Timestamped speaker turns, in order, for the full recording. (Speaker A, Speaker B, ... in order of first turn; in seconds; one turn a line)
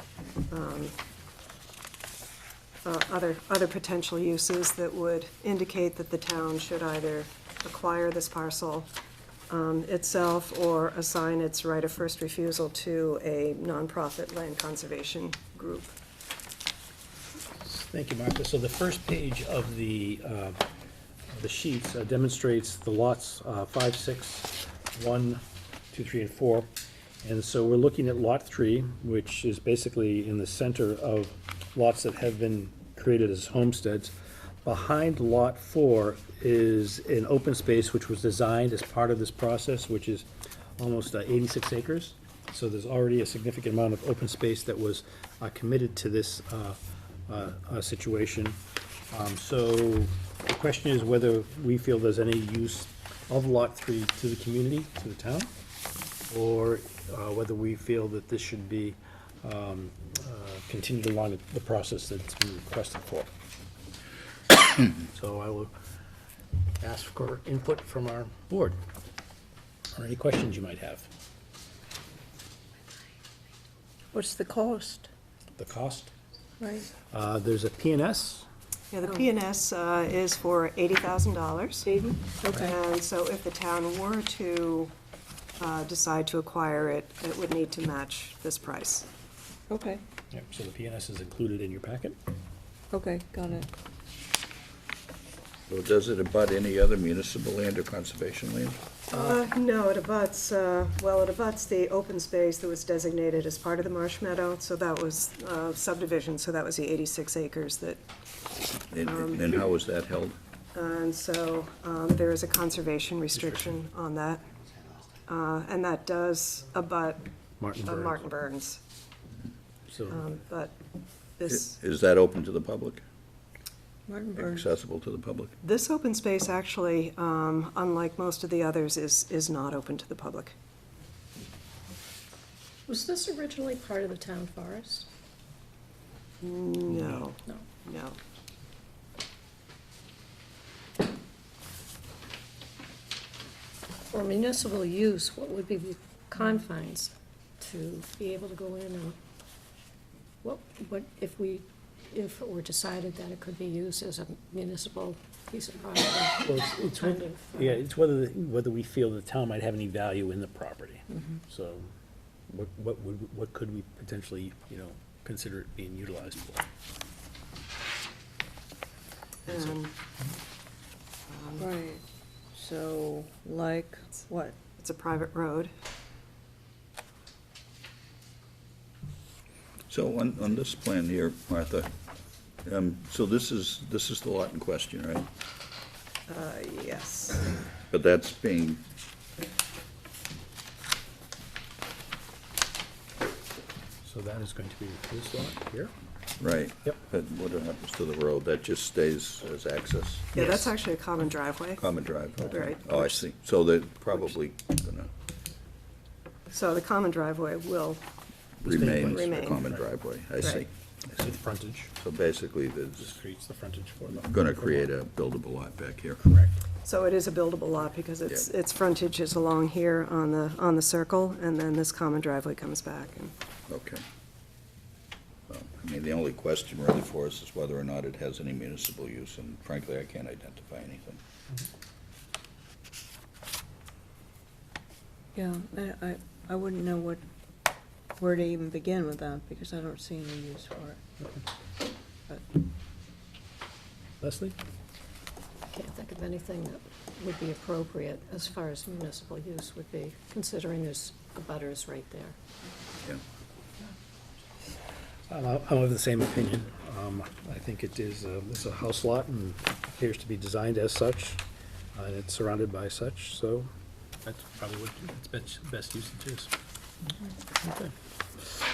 Speaker A: 0.5-1.0
Speaker A: 2.8-8.9
Speaker A: 9.5-16.0
Speaker B: 17.6-20.6
Speaker B: 21.3-26.7
Speaker B: 27.2-48.6
Speaker B: 49.1-55.5
Speaker B: 56.3-63.3
Speaker B: 64.9-65.7
Speaker B: 66.8-68.8
Speaker B: 69.9-71.1
Speaker C: 74.1-75.1
Speaker B: 75.6-76.1
Speaker C: 76.6-76.9
Speaker B: 77.1-78.5
Speaker A: 78.9-81.9
Speaker C: 81.9-82.8
Speaker A: 82.5-84.9
Speaker A: 85.6-89.1
Speaker C: 89.7-90.0
Speaker B: 90.3-92.2
Speaker C: 92.9-93.7
Speaker D: 95.7-98.8
Speaker A: 99.1-108.0
Speaker D: 108.9-110.4
Speaker A: 109.0-109.5
Speaker A: 110.8-114.5
Speaker A: 115.3-117.3
Speaker B: 117.6-118.2
Speaker A: 117.8-118.8
Speaker B: 119.9-120.2
Speaker A: 120.1-120.8
Speaker A: 121.4-121.8
Speaker D: 121.5-123.0
Speaker C: 124.1-124.6
Speaker D: 124.4-125.5
Speaker A: 125.6-130.6
Speaker E: 132.9-135.1
Speaker A: 136.4-138.2
Speaker E: 144.1-149.2
Speaker E: 150.4-157.8
Speaker B: 156.5-161.9
Speaker B: 162.5-166.7
Speaker A: 169.5-169.9
Speaker B: 169.5-169.8
Speaker A: 171.3-171.6
Speaker C: 171.6-172.0
Speaker C: 172.5-174.6
Speaker A: 174.6-175.7
Speaker D: 179.9-181.9
Speaker D: 182.6-185.3
Speaker A: 186.3-187.6
Speaker D: 187.9-188.8
Speaker B: 194.0-195.9
Speaker D: 196.4-200.6
Speaker A: 200.3-201.8
Speaker D: 201.8-205.1
Speaker A: 202.4-203.2
Speaker A: 206.5-208.0
Speaker D: 208.6-210.7
Speaker B: 208.7-209.9
Speaker A: 209.0-209.6
Speaker B: 211.1-211.9
Speaker D: 212.0-213.1
Speaker B: 213.0-214.9
Speaker D: 214.2-216.2
Speaker B: 216.2-216.6
Speaker A: 216.8-223.3
Speaker D: 223.7-224.0
Speaker D: 225.5-231.2
Speaker C: 235.3-237.2
Speaker C: 238.2-241.0
Speaker B: 244.2-244.6
Speaker E: 245.7-252.4
Speaker B: 255.3-261.4
Speaker B: 261.9-263.7
Speaker B: 264.2-266.5
Speaker B: 267.5-268.6